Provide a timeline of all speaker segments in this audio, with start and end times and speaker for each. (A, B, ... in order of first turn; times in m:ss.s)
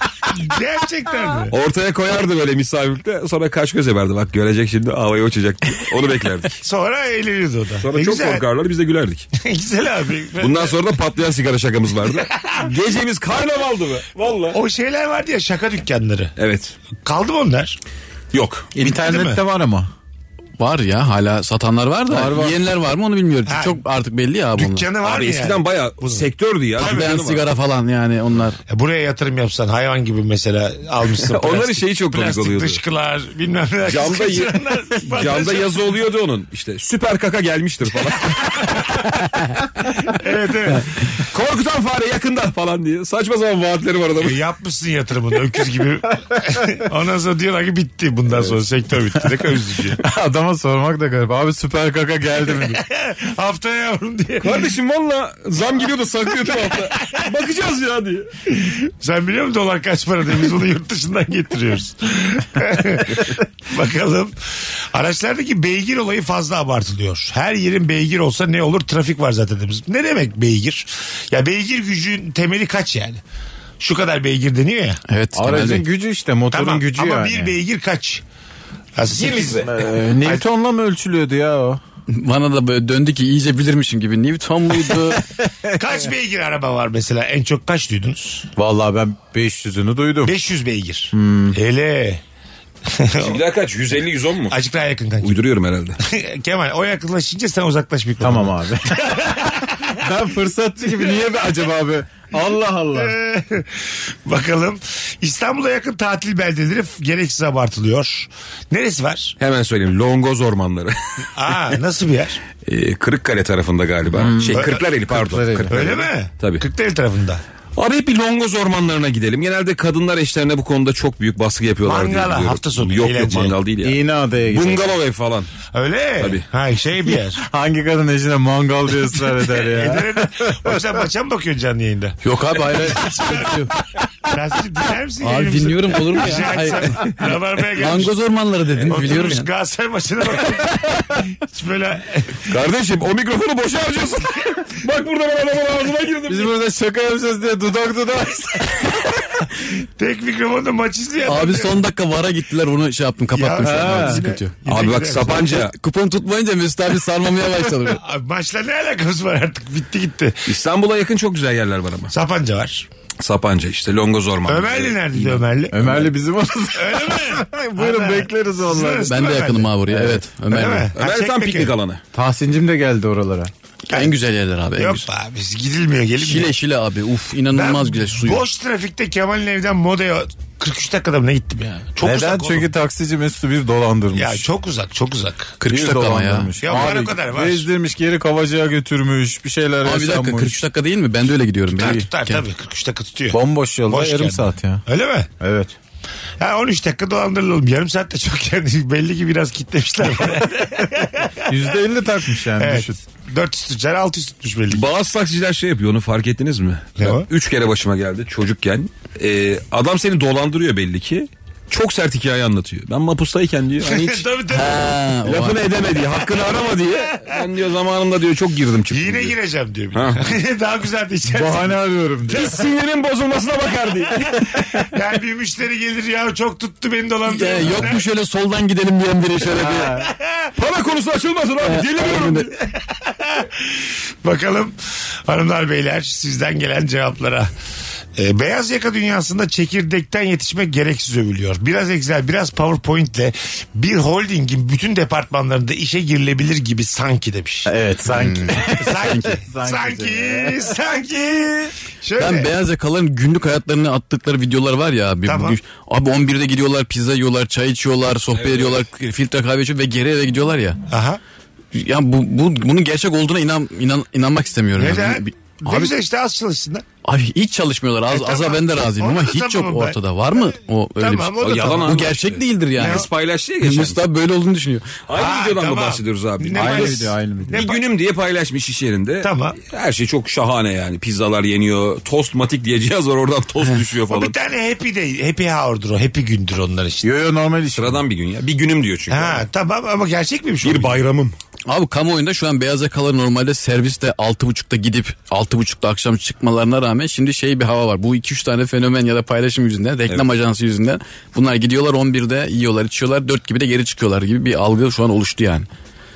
0:00.3-0:01.6 A
0:01.5-0:06.6 B
0:06.6-0:08.4 A
0:07.8-0:09.3 B
0:09.4-0:10.8 A
0:10.4-0:14.6 B
0:12.2-0:12.7 A
0:14.4-0:16.3 A
0:16.4-0:16.8 B
0:17.0-0:17.8 A
0:18.3-0:18.7 B
0:18.7-0:19.9 C
0:18.8-0:19.4 A
0:20.6-0:24.9 D
0:22.1-0:22.6 C
0:23.5-0:23.8 A
0:24.5-0:27.2 A
0:25.0-0:27.5 B
0:26.8-0:28.6 D
0:28.7-0:35.8 A
0:31.2-0:32.8 B
0:33.8-0:34.5 B
0:35.0-0:39.1 B
0:40.1-0:41.0 A
0:41.1-0:44.4 B
0:44.2-0:50.0 A
0:50.0-0:52.8 C
0:52.6-0:54.7 A
0:54.4-0:58.3 B
0:56.7-0:57.2 A
0:58.5-1:13.2 A
1:13.8-1:15.0 A
1:15.1-1:15.8 D
1:15.3-1:17.5 C
1:16.5-1:18.2 A
1:19.0-1:19.7 A
1:19.1-1:19.7 B
1:19.6-1:21.8 C
1:22.1-1:25.2 D
1:24.9-1:25.2 C
1:25.7-1:28.5 A
1:28.6-1:30.3 C
1:30.2-1:32.2 A
1:31.1-1:31.6 C
1:32.9-1:33.4 A
1:33.2-1:34.6 B
1:34.5-1:35.4 A
1:35.2-1:36.0 B
1:36.0-1:40.0 A
1:38.2-1:39.1 C
1:39.9-1:43.1 C
1:42.9-1:49.3 A
1:49.4-1:51.3 B
1:51.4-1:52.4 A
1:52.6-1:56.6 B
1:54.1-1:55.8 C
1:54.5-1:54.8 A
1:55.7-1:57.4 A
1:57.8-2:05.5 B
2:01.8-2:03.6 A
2:03.8-2:04.9 C
2:05.7-2:07.4 A
2:07.4-2:10.8 C
2:09.5-2:13.6 A
2:12.2-2:13.7 D
2:14.2-2:18.2 A
2:15.2-2:16.8 D
2:17.8-2:19.5 D
2:18.8-2:20.8 A
2:21.4-2:22.4 A
2:22.4-2:26.5 B
2:26.3-2:29.0 C
2:29.8-2:31.8 A
2:31.2-2:34.5 D
2:33.3-2:35.6 A
2:33.6-2:34.2 C
2:34.7-2:35.7 B
2:35.5-2:38.0 D
2:37.8-2:40.5 A
2:40.5-2:42.1 B
2:42.1-2:42.9 A
2:43.2-2:45.2 B
2:44.4-2:46.1 A
2:45.7-2:49.1 C
2:46.7-2:49.7 A
2:49.0-2:50.9 D
2:49.9-2:50.2 C
2:50.5-2:51.7 A
2:51.0-2:52.0 B
2:52.1-2:53.5 C
2:53.9-2:55.0 D
2:54.8-2:56.6 A
2:56.2-2:58.4 D
2:57.5-3:02.7 A
3:02.0-3:04.5 C
3:04.1-3:05.5 A
3:05.6-3:06.5 D
3:05.6-3:10.6 C
3:06.6-3:07.7 A
3:09.8-3:12.4 D
3:11.7-3:15.3 A
3:13.3-3:14.8 C
3:15.4-3:15.7 C
3:16.4-3:21.6 A
3:21.5-3:23.0 C
3:22.5-3:24.9 A
3:24.7-3:34.3 B
3:27.0-3:27.3 A
3:33.8-3:34.9 A
3:34.5-3:35.6 D
3:35.2-3:39.3 B
3:36.2-3:37.4 A
3:38.9-3:41.8 A
3:39.9-3:40.2 B
3:41.3-3:42.6 C
3:42.3-3:44.3 B
3:44.8-3:48.0 A
3:47.3-3:49.9 D
3:49.5-3:50.1 C
3:50.0-3:50.5 A
3:50.6-3:52.6 B
3:51.6-3:52.5 D
3:52.9-3:57.5 A
3:58.2-4:07.7 A
4:07.6-4:10.7 C
4:08.2-4:08.6 D
4:08.5-4:12.5 A
4:12.2-4:20.8 D
4:15.2-4:15.6 A
4:18.3-4:18.8 B
4:20.9-4:21.2 A
4:21.7-4:25.9 D
4:24.8-4:26.8 A
4:27.0-4:33.1 D
4:28.1-4:32.1 A
4:31.4-4:34.0 B
4:32.7-4:33.1 A
4:33.6-4:34.9 D
4:35.1-4:44.4 B
4:35.1-4:37.8 A
4:36.5-4:37.7 C
4:39.2-4:39.6 A
4:44.1-4:47.1 A
4:47.0-4:48.0 C
4:47.7-4:49.4 B
4:49.1-4:51.0 A
4:50.6-4:51.3 B
4:51.7-5:05.7 D